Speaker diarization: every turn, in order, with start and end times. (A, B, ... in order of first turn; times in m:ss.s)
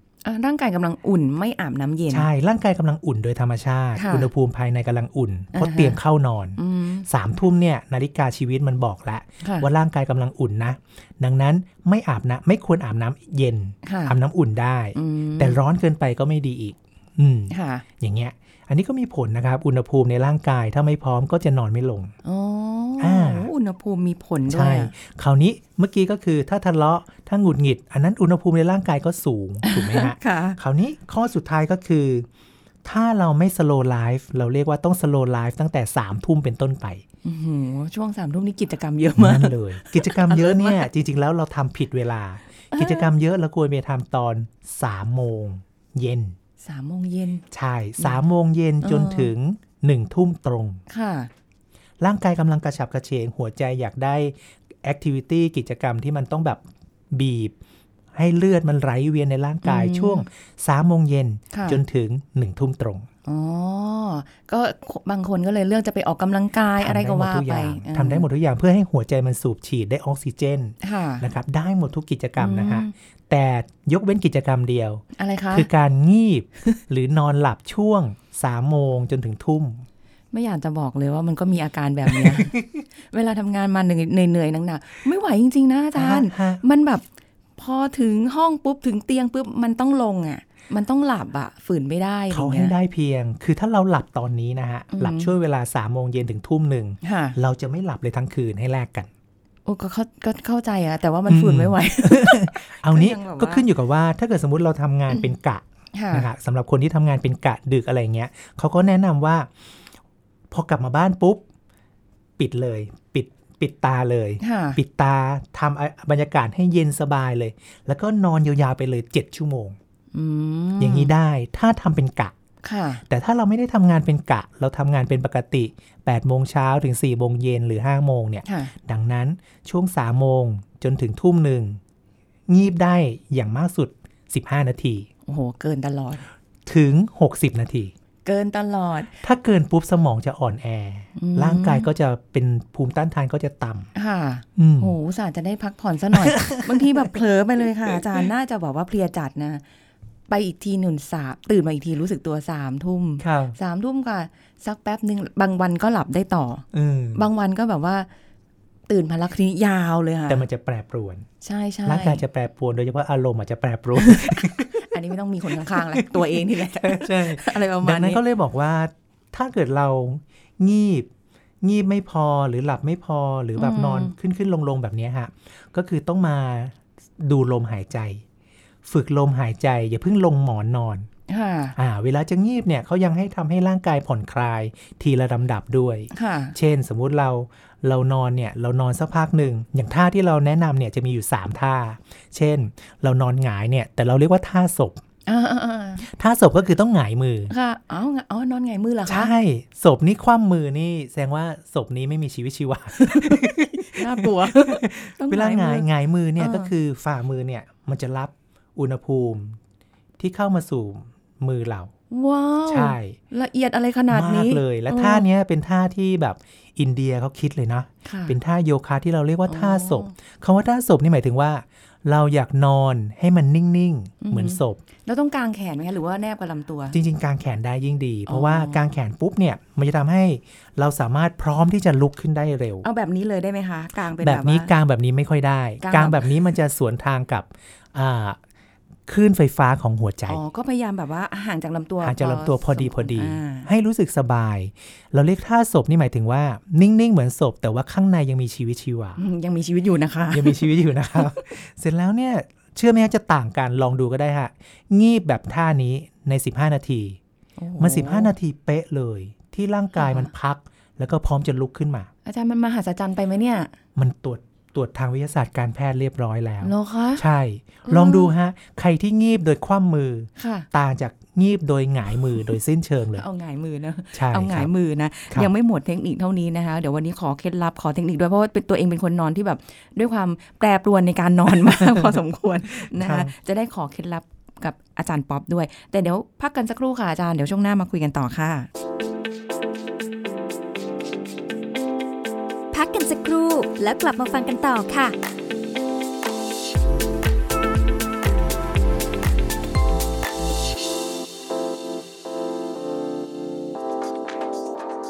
0:00.2-0:02.3 A
0:02.1-0:22.1 B
0:04.0-0:04.3 A
0:05.5-0:06.0 A
0:06.6-0:07.1 A
0:09.4-0:09.7 A
0:13.8-0:14.1 A
0:14.9-0:15.6 A
0:17.5-0:17.8 A
0:22.2-0:24.9 A
0:23.0-0:23.5 B
0:24.5-0:32.3 B
0:29.6-0:30.6 A
0:32.8-0:37.0 B
0:37.2-0:40.9 A
0:39.2-0:46.4 B
0:42.7-0:43.1 A
0:46.6-0:47.4 A
0:47.5-0:50.8 B
0:48.8-0:49.3 A
0:50.9-0:51.3 A
0:52.0-0:57.5 B
0:58.1-1:03.1 B
0:59.6-1:00.2 A
1:01.5-1:01.8 A
1:03.2-1:08.2 A
1:06.8-1:19.8 B
1:10.8-1:11.2 A
1:12.4-1:12.9 A
1:15.2-1:15.7 A
1:20.3-1:27.0 A
1:22.1-1:22.6 B
1:25.9-1:26.6 B
1:27.6-1:32.7 A
1:32.3-1:39.1 B
1:34.9-1:35.3 A
1:37.0-1:37.4 A
1:39.6-1:43.6 A
1:41.3-1:49.5 B
1:45.9-1:46.3 A
1:50.5-1:51.4 B
1:52.4-1:59.8 B
1:54.4-1:54.8 A
2:00.1-2:01.1 A
2:00.8-2:02.3 B
2:02.6-2:03.0 A
2:03.1-2:11.8 B
2:08.4-2:08.7 A
2:12.5-2:15.1 B
2:15.2-2:16.2 A
2:16.6-2:17.9 B
2:18.2-2:19.1 A
2:19.2-2:23.9 B
2:21.2-2:21.8 A
2:23.9-2:29.6 A
2:24.6-2:24.9 B
2:26.1-2:27.1 B
2:30.3-2:38.1 A
2:33.2-2:33.6 B
2:36.7-2:37.2 B
2:38.9-2:40.4 A
2:40.3-2:41.3 B
2:41.4-2:42.2 A
2:41.8-2:44.8 B
2:44.0-2:48.2 A
2:45.7-2:51.1 B
2:51.6-2:58.2 B
2:53.6-2:54.1 A
2:58.8-3:01.1 B
3:01.3-3:01.8 A
3:01.8-3:15.0 B
3:06.1-3:06.6 A
3:15.3-3:16.0 A
3:16.0-3:17.5 B
3:17.5-3:19.3 A
3:19.1-3:29.6 B
3:23.0-3:25.9 A
3:26.4-3:26.7 A
3:30.2-3:31.9 B
3:32.1-3:35.2 A
3:32.7-3:33.2 B
3:34.1-3:44.8 B
3:38.0-3:38.4 A
3:39.5-3:40.1 A
3:44.2-3:47.0 A
3:46.9-3:52.8 B
3:48.3-3:48.8 A
3:52.8-3:54.7 A
3:54.2-3:58.4 B
3:55.8-3:56.2 A
3:59.1-4:00.4 B
4:00.3-4:03.7 A
4:02.0-4:09.2 B
4:09.2-4:11.2 A
4:10.3-4:17.2 B
4:17.6-4:18.3 A
4:17.8-4:22.1 B
4:20.0-4:20.3 A
4:22.2-4:23.7 A
4:24.0-4:33.2 B
4:26.6-4:27.2 A
4:27.8-4:28.3 A
4:30.4-4:30.7 A
4:33.2-4:48.7 A
4:34.1-4:34.7 B
4:42.8-4:43.3 B
4:52.7-4:55.1 C